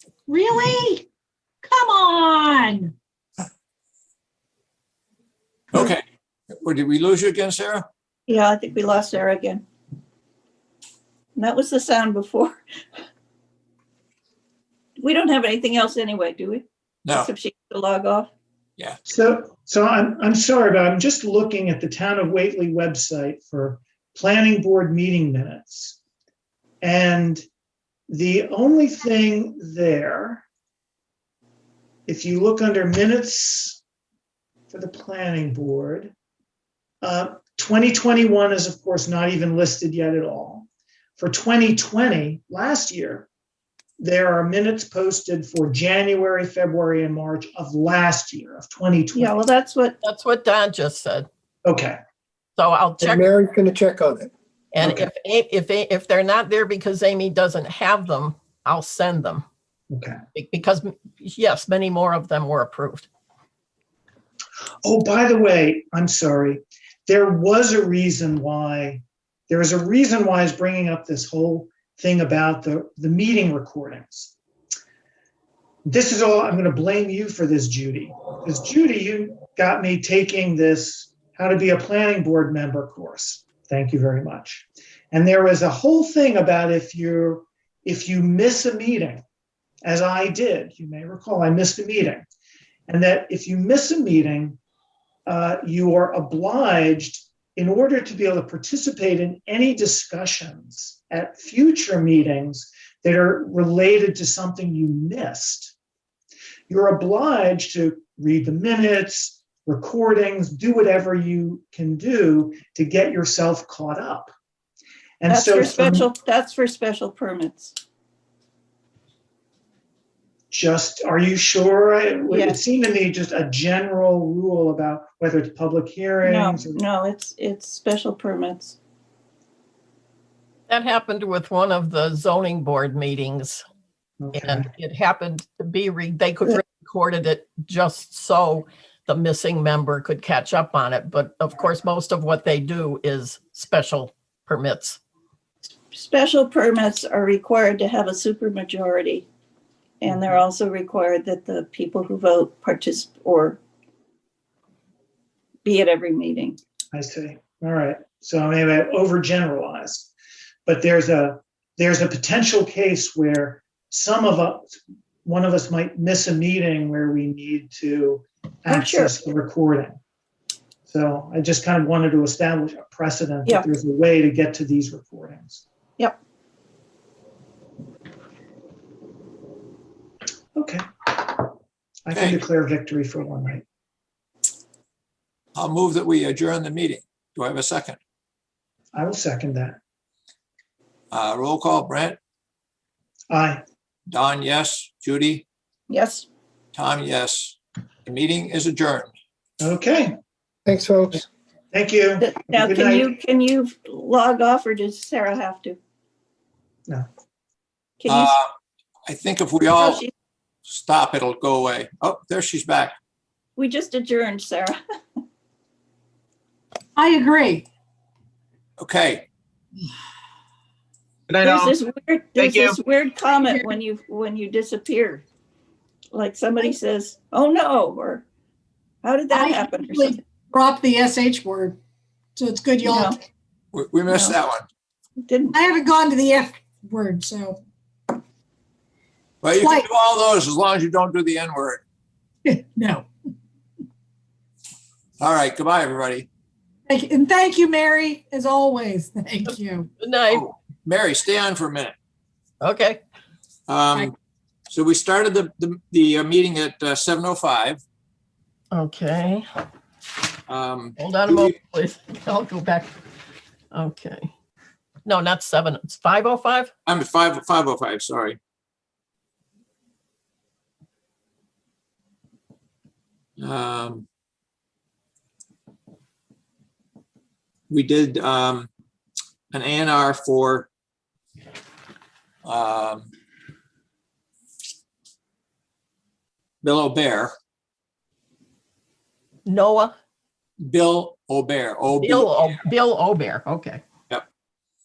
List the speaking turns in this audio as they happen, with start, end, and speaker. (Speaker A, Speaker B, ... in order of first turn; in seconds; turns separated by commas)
Speaker A: 0.3-1.1, Speaker A: 1.6-2.9, Speaker B: 5.7-6.0, Speaker B: 6.5-7.9, Speaker C: 8.3-9.6, Speaker C: 11.4-12.6, Speaker C: 15.0-18.3, Speaker B: 17.1-17.3, Speaker D: 19.1-26.0, Speaker D: 26.8-27.4, Speaker D: 28.1-30.4, Speaker D: 32.1-33.8, Speaker D: 34.7-36.1, Speaker D: 37.0-43.3, Speaker D: 44.0-49.3, Speaker C: 49.1-50.0, Speaker E: 50.0-51.3, Speaker D: 51.6-52.0, Speaker E: 52.6-53.2, Speaker F: 53.0-54.3, Speaker E: 54.7-59.5, Speaker D: 59.9-60.2, Speaker E: 60.4-63.1, Speaker D: 64.8-74.3, Speaker D: 75.8-89.2, Speaker D: 89.8-92.3, Speaker D: 92.9-94.6, Speaker D: 95.3-105.7, Speaker D: 106.7-114.3, Speaker D: 115.2-116.1, Speaker C: 115.3-117.8, Speaker D: 120.5-126.8, Speaker C: 122.3-122.6, Speaker C: 126.2-128.8, Speaker E: 130.7-133.6, Speaker D: 134.2-134.7, Speaker E: 134.3-145.0, Speaker C: 145.9-149.3, Speaker C: 150.0-153.6, Speaker D: 150.1-150.4, Speaker C: 155.7-156.6, Speaker D: 156.9-160.1, Speaker D: 160.7-170.0, Speaker C: 168.7-169.2, Speaker D: 170.9-175.7, Speaker D: 180.6-181.5, Speaker D: 182.1-183.6, Speaker B: 182.1-182.4, Speaker B: 185.6-188.0, Speaker D: 188.9-189.8, Speaker B: 191.1-192.2, Speaker D: 193.3-193.6, Speaker B: 194.1-195.5, Speaker C: 195.9-196.3, Speaker B: 196.7-199.1, Speaker D: 199.6-200.1, Speaker F: 200.7-201.2, Speaker D: 201.7-203.1, Speaker C: 202.2-205.8, Speaker C: 208.0-208.3, Speaker B: 208.1-208.5, Speaker B: 209.1-210.0, Speaker C: 209.8-210.1, Speaker B: 210.7-213.0, Speaker C: 213.6-214.8, Speaker A: 217.0-217.7, Speaker B: 218.8-219.3, Speaker B: 221.3-221.6, Speaker C: 221.4-225.2, Speaker B: 222.4-222.7, Speaker A: 223.5-223.8, Speaker C: 226.1-228.2, Speaker C: 229.0-230.2, Speaker A: 229.3-231.8, Speaker A: 232.4-233.2, Speaker C: 232.8-233.2, Speaker B: 233.7-234.7, Speaker C: 234.1-234.4, Speaker C: 235.2-235.6, Speaker A: 235.5-237.6, Speaker B: 239.4-241.8, Speaker A: 239.6-239.9, Speaker A: 242.4-243.1, Speaker B: 245.2-246.3, Speaker A: 246.9-249.9, Speaker E: 249.5-250.4, Speaker B: 250.3-251.9, Speaker E: 252.6-253.0, Speaker B: 253.7-254.1, Speaker B: 254.7-257.8, Speaker E: 258.7-259.5, Speaker B: 260.5-261.5, Speaker E: 261.0-262.9, Speaker E: 263.7-264.3, Speaker E: 265.1-266.7, Speaker B: 266.9-268.4, Speaker B: 273.4-274.1, Speaker B: 277.7-278.7, Speaker B: 279.5-280.7, Speaker B: 282.4-283.1, Speaker B: 286.6-287.3, Speaker E: 289.5-289.9, Speaker B: 290.6-292.6, Speaker E: 292.0-293.8